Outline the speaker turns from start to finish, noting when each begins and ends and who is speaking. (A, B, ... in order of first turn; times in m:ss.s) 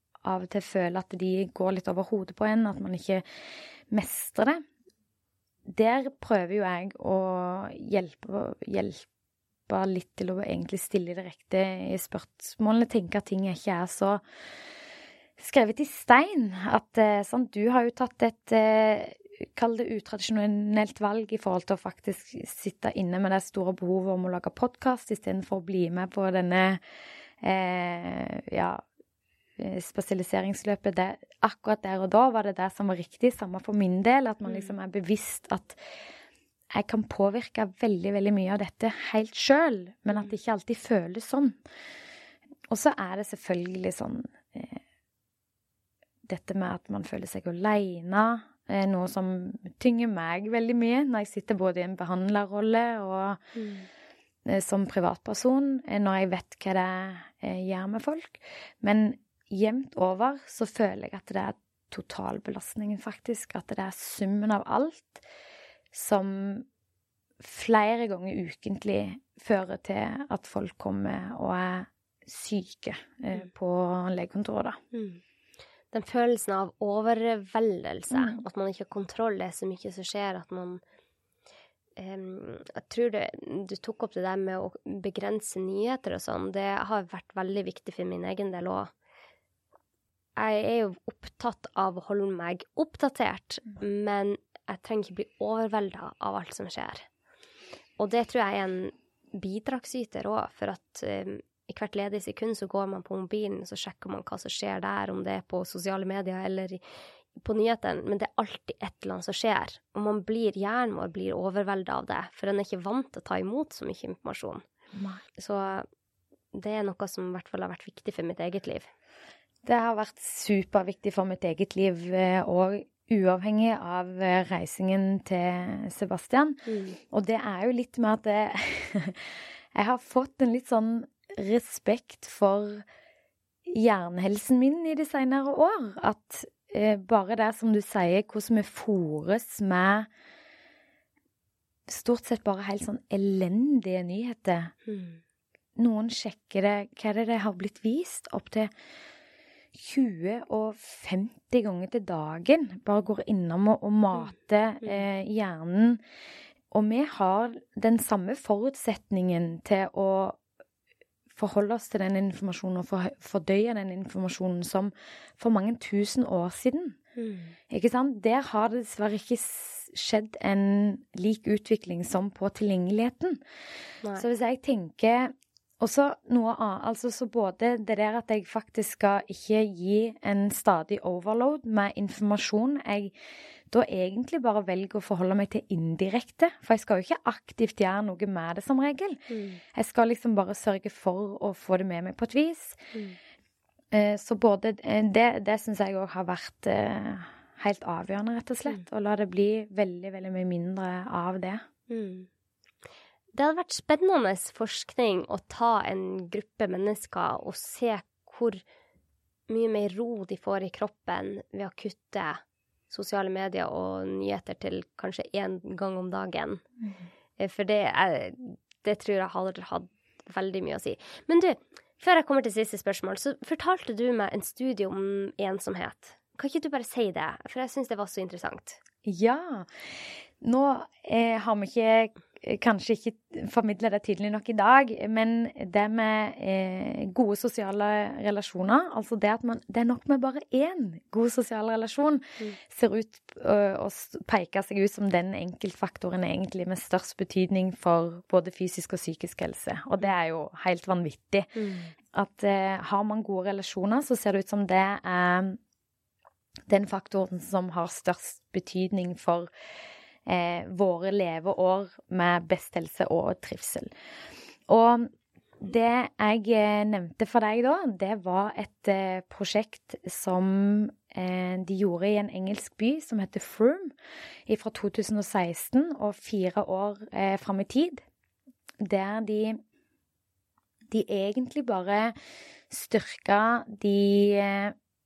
0:00.2-0:03.2 A
0:03.9-0:04.6 A
0:05.7-0:09.1 A
0:09.7-0:14.2 A
0:15.4-0:26.8 A
0:27.4-0:28.8 A
0:29.6-0:35.8 A
0:34.4-0:34.7 B
0:36.7-0:41.6 A
0:42.7-0:44.8 A
0:46.3-0:53.4 A
0:53.6-0:53.9 B
0:54.5-1:05.2 A
1:05.9-1:06.7 A
1:07.4-1:14.8 A
1:14.9-1:15.2 B
1:15.9-1:20.8 B
1:18.1-1:18.4 A
1:22.0-1:28.9 B
1:30.4-1:37.1 B
1:38.0-1:46.8 B
1:47.4-1:54.6 B
1:54.9-1:55.2 A
1:55.4-1:55.9 B
1:56.5-1:58.9 B
1:59.6-2:12.8 A
2:06.7-2:07.0 B
2:13.7-2:20.1 A
2:21.9-2:24.7 A
2:24.9-2:25.2 B
2:25.8-2:28.7 A
2:29.8-2:36.0 A
2:36.7-2:40.4 A
2:41.4-2:47.0 A
2:47.2-2:47.5 B
2:47.7-2:53.4 A
2:54.1-3:03.1 A
3:03.7-3:09.2 A
3:09.3-3:09.6 B
3:09.8-3:12.8 A
3:13.9-3:21.6 A
3:21.9-3:22.3 B
3:23.3-3:28.6 B
3:29.5-3:36.6 B
3:37.4-3:48.8 B
3:49.0-3:49.7 A
3:50.4-4:11.5 A
4:11.6-4:11.9 B
4:12.1-4:15.6 A
4:16.7-4:19.5 A
4:20.3-4:23.9 A
4:24.7-4:25.1 A
4:25.6-4:33.9 A
4:34.5-4:38.0 A
4:38.8-4:39.6 A
4:40.9-4:42.1 A
4:42.7-4:44.8 A